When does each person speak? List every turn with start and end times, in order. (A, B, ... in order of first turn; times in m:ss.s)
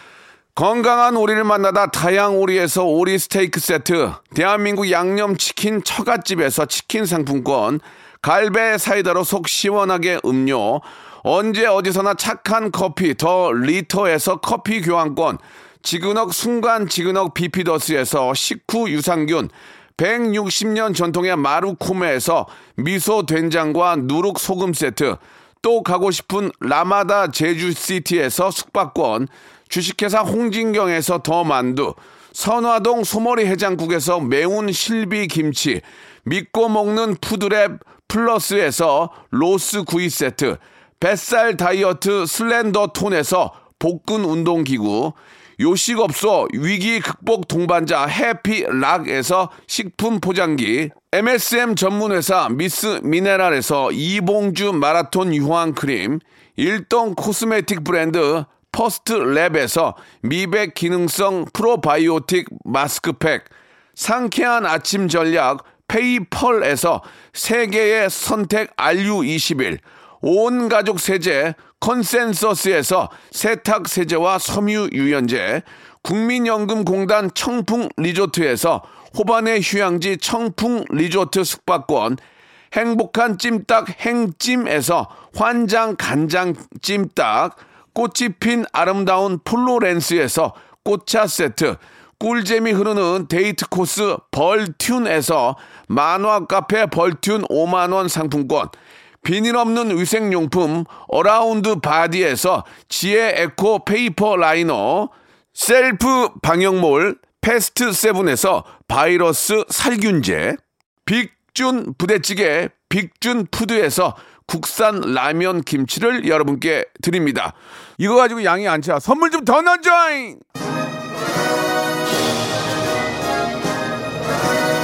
0:00.5-1:22.2 A
1:22.7-2:00.4 A